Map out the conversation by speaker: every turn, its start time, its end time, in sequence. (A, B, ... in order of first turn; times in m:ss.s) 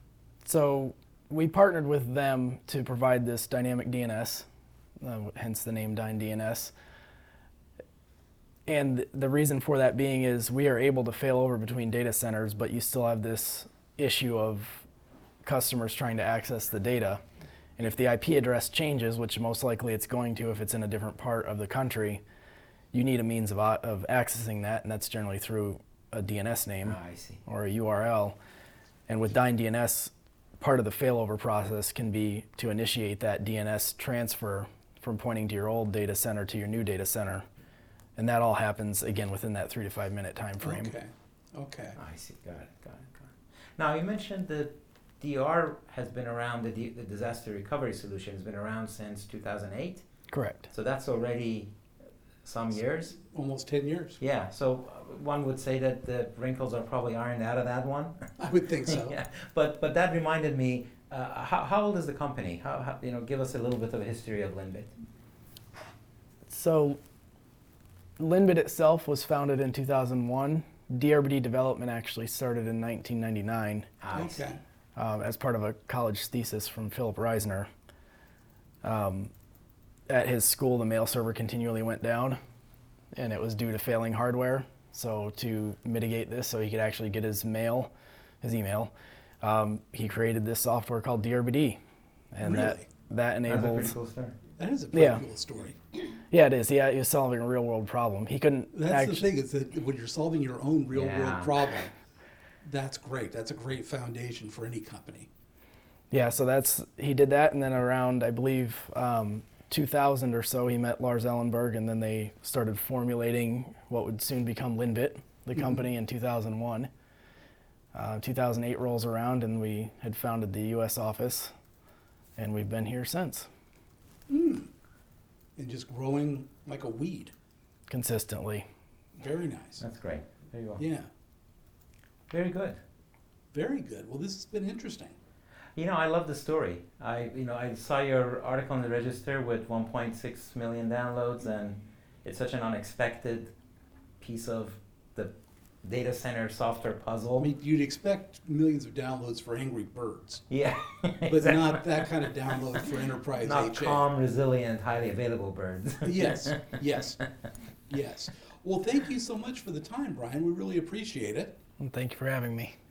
0:00.4-0:04.4 A
0:05.0-0:06.7 A
0:08.7-0:14.8 A
0:15.4-0:17.2 A
0:17.8-0:22.2 A
0:22.9-0:28.4 A
0:26.8-0:27.4 B
0:29.1-0:37.4 A
0:38.2-0:40.9 A
0:40.6-0:42.0 C
0:42.0-0:50.0 B
0:50.3-0:50.7 A
0:50.7-0:51.7 B
0:52.4-0:53.2 B
0:53.3-0:54.2 C
0:54.2-0:58.2 B
0:58.4-0:59.2 C
0:58.9-1:04.9 B
1:06.5-1:07.0 A
1:08.2-1:13.9 A
1:14.0-1:14.4 B
1:14.1-1:14.6 C
1:15.0-1:17.7 A
1:18.8-1:19.3 A
1:20.1-1:22.4 A
1:23.1-1:31.8 A
1:32.3-1:33.9 A
1:32.4-1:32.9 C
1:33.4-1:34.4 B
1:34.6-1:35.8 C
1:34.9-1:35.2 A
1:36.3-1:39.3 A
1:38.7-1:41.9 C
1:40.9-1:41.6 B
1:42.6-1:45.3 C
1:46.1-1:56.9 A
1:57.9-2:01.5 A
2:02.4-2:03.5 A
2:04.3-2:04.7 C
2:05.6-2:07.3 C
2:07.9-2:08.6 A
2:09.2-2:09.8 C
2:09.8-2:10.8 B
2:10.8-2:11.1 C
2:12.3-2:12.8 B
2:13.5-2:15.1 C
2:15.8-2:23.5 B
2:24.2-2:27.5 B
2:27.4-2:30.4 C
2:30.5-2:32.1 B
2:31.3-2:34.1 C
2:33.4-2:36.6 B
2:36.0-2:37.2 C
2:37.9-2:41.5 C
2:41.8-2:42.8 A